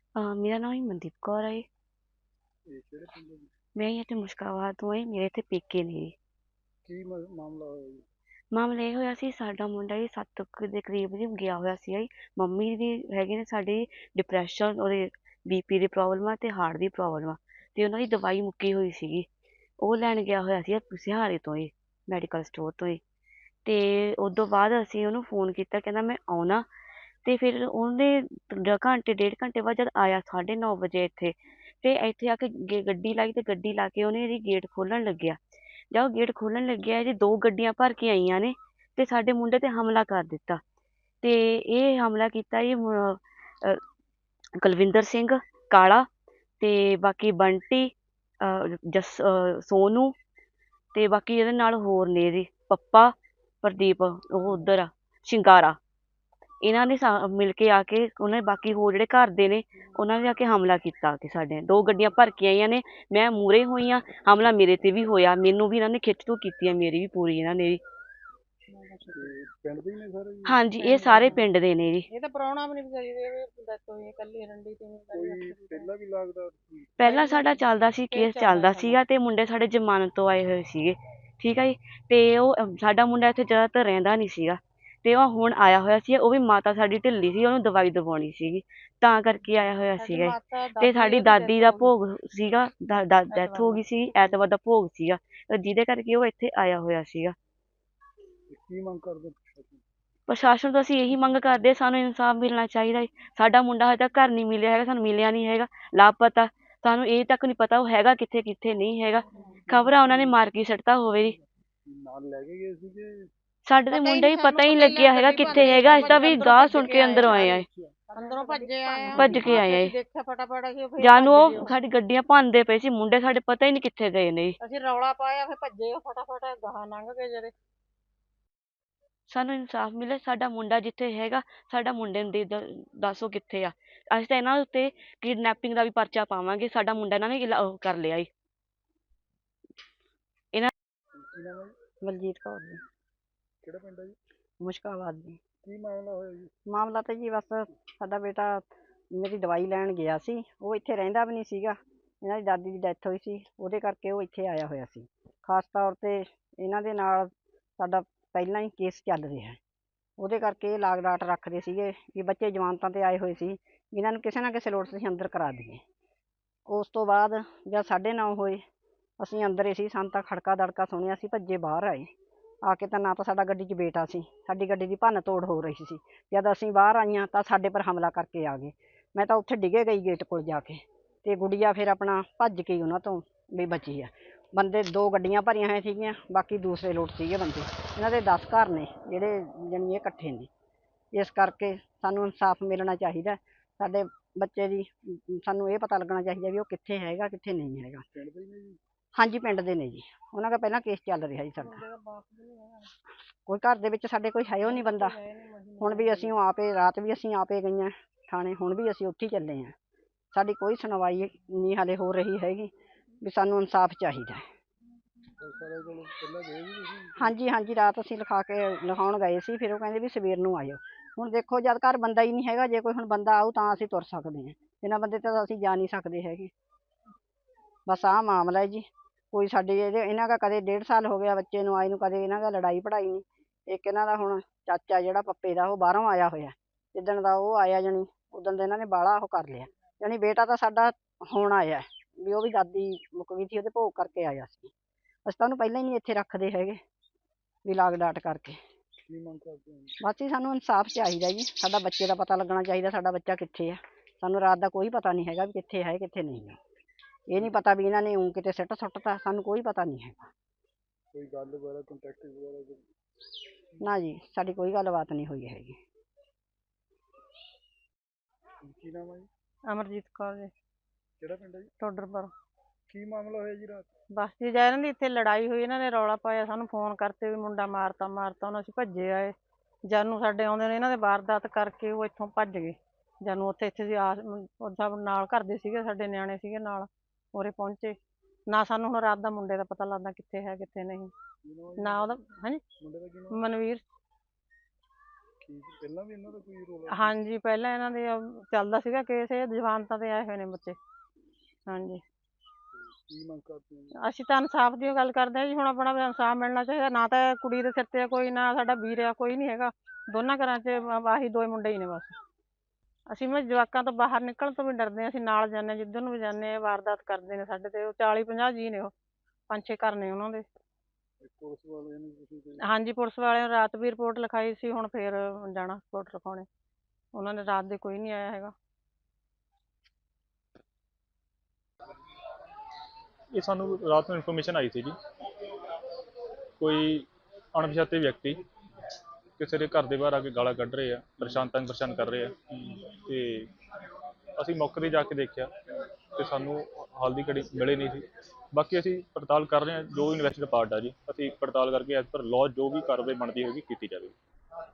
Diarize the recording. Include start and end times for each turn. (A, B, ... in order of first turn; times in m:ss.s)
0:00.2-0:01.6 A
0:02.7-0:03.5 B
0:03.8-0:06.2 A
0:06.8-0:08.0 B
0:08.5-0:19.3 A
0:19.8-0:23.0 A
0:23.7-0:26.6 A
0:27.2-0:35.4 A
0:35.9-0:40.6 A
0:41.2-0:43.8 A
0:44.6-0:46.1 A
0:46.6-0:50.1 A
0:50.9-0:55.8 A
0:56.6-1:07.8 A
1:08.7-1:09.2 C
1:09.1-1:10.6 B
1:10.5-1:12.1 A
1:10.8-1:11.5 C
1:12.1-1:15.9 C
1:15.1-1:16.9 B
1:17.0-1:37.4 A
1:17.0-1:19.0 C
1:30.0-1:32.0 C
1:33.3-1:33.9 C
1:38.5-1:39.8 B
1:40.3-1:51.4 A
1:49.7-1:50.4 B
1:51.9-1:53.3 B
1:53.7-1:57.7 A
1:53.9-2:01.7 C
1:55.5-1:56.2 B
1:58.6-1:59.4 D
1:59.1-1:59.9 A
1:59.3-1:59.6 B
2:01.0-2:04.6 A
2:04.6-2:07.5 C
2:09.3-2:18.3 A
2:21.2-2:21.8 B
2:22.0-2:22.8 D
2:23.6-2:24.2 B
2:24.6-2:25.4 D
2:25.6-2:26.5 B
2:26.7-2:39.6 D
2:40.2-2:45.8 D
2:46.7-2:48.6 D
2:49.2-2:52.1 D
2:52.6-3:10.5 D
3:11.1-3:18.0 D
3:18.1-3:18.8 B
3:19.2-3:21.8 D
3:21.6-3:22.9 C
3:23.5-3:25.2 D
3:24.6-3:26.3 C
3:25.8-3:29.7 D
3:30.3-3:32.7 D
3:33.2-3:34.4 D
3:35.4-3:37.3 B
3:37.2-3:46.5 D
3:47.9-4:04.7 D
4:05.3-4:06.8 D
4:07.6-4:08.6 D
4:09.1-4:10.0 B
4:10.0-4:16.6 D
4:17.3-4:20.3 D
4:21.1-4:22.8 B
4:23.8-4:25.8 D
4:28.6-4:29.3 B
4:29.7-4:30.5 C
4:31.2-4:31.7 B
4:31.8-4:32.3 C
4:32.9-4:33.9 B
4:34.2-4:39.3 C
4:39.9-4:48.0 C
4:48.5-4:51.1 C
4:51.4-4:52.2 B
4:51.8-4:52.6 C
4:52.8-4:53.4 B
4:53.3-4:53.8 C
4:55.4-4:57.2 B
4:56.9-5:00.8 C
5:01.7-5:02.0 C
5:02.7-5:04.0 B
5:04.0-5:12.2 C
5:13.1-5:18.9 C
5:19.5-5:20.5 C
5:21.2-5:22.7 B
5:22.7-5:26.5 C
5:27.1-5:28.5 C
5:33.3-5:35.0 E
5:36.6-5:38.4 E
5:39.4-5:43.5 E
5:44.4-5:45.5 E
5:46.2-5:54.2 E